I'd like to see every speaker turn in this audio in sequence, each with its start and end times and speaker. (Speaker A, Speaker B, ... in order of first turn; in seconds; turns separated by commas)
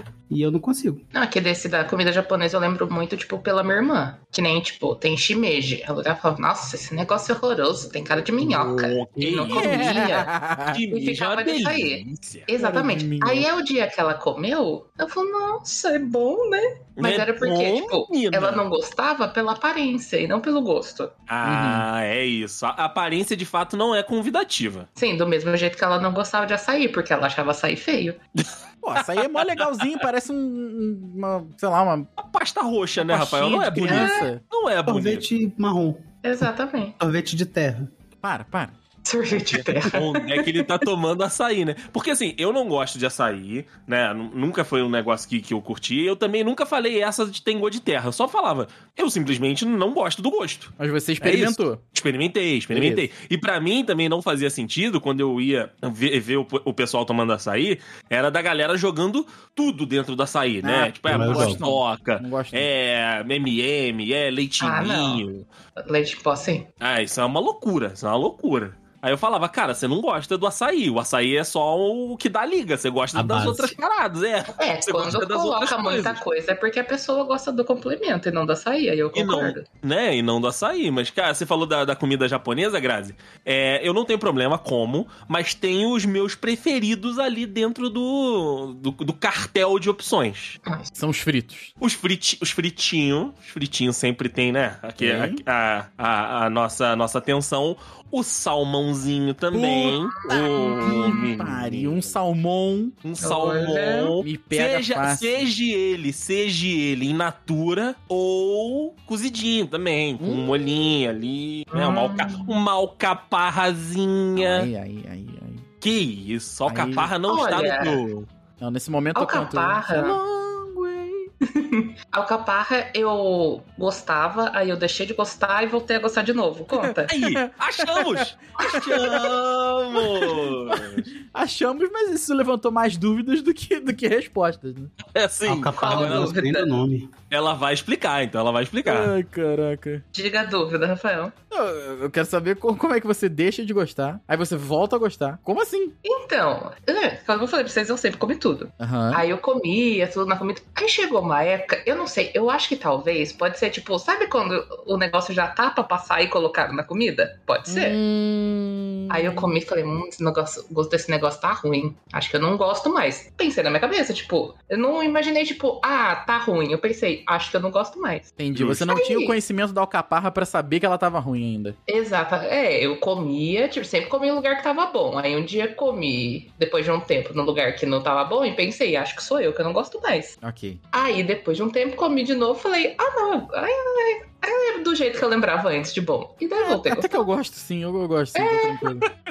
Speaker A: 0.3-1.0, Speaker B: 1.1-10.3, Speaker C: 8.4-10.1, Speaker D: 9.5-10.8, Speaker C: 10.7-12.5, Speaker B: 10.9-21.1, Speaker D: 12.6-13.5, Speaker C: 17.0-18.6, Speaker C: 21.3-24.9, Speaker D: 21.4-21.9, Speaker B: 25.0-28.2, Speaker C: 28.4-30.0, Speaker D: 28.8-32.1, Speaker C: 32.2-35.2, Speaker D: 33.0-34.4, Speaker B: 33.9-34.3, Speaker A: 34.9-36.5, Speaker B: 36.2-37.0, Speaker A: 37.0-37.9, Speaker D: 38.2-38.7, Speaker B: 39.0-40.7, Speaker C: 39.4-65.5, Speaker D: 50.8-51.8, Speaker D: 52.7-53.1, Speaker D: 60.6-62.7, Speaker A: 61.1-61.6, Speaker B: 64.6-65.2, Speaker B: 65.8-66.7, Speaker C: 66.8-76.2, Speaker A: 73.1-73.7, Speaker B: 74.6-79.7, Speaker C: 79.1-90.6, Speaker D: 90.9-91.7, Speaker C: 91.8-102.1, Speaker D: 95.0-95.4, Speaker D: 99.5-103.0, Speaker B: 100.3-101.2, Speaker C: 103.0-114.7, Speaker B: 103.2-104.2, Speaker D: 104.2-105.5, Speaker D: 110.2-110.5, Speaker B: 111.7-112.5, Speaker D: 114.4-115.7, Speaker C: 115.8-118.3, Speaker D: 116.7-117.1, Speaker B: 117.3-118.0, Speaker D: 118.6-121.3, Speaker B: 119.2-120.2, Speaker B: 121.5-127.1, Speaker D: 126.8-129.3, Speaker C: 127.1-131.1, Speaker D: 130.0-134.9, Speaker C: 135.1-136.3, Speaker A: 135.5-137.1, Speaker B: 135.8-136.7, Speaker C: 137.3-139.1, Speaker D: 138.9-140.0, Speaker B: 140.1-141.3, Speaker D: 141.5-145.9, Speaker B: 146.0-158.0, Speaker D: 148.8-149.2, Speaker D: 157.7-159.5, Speaker B: 159.1-168.3, Speaker D: 168.4-171.8, Speaker C: 168.5-168.9, Speaker B: 168.9-169.4, Speaker B: 171.9-180.3, Speaker D: 180.4-180.8, Speaker B: 180.9-187.2, Speaker D: 186.6-189.1, Speaker B: 188.3-188.8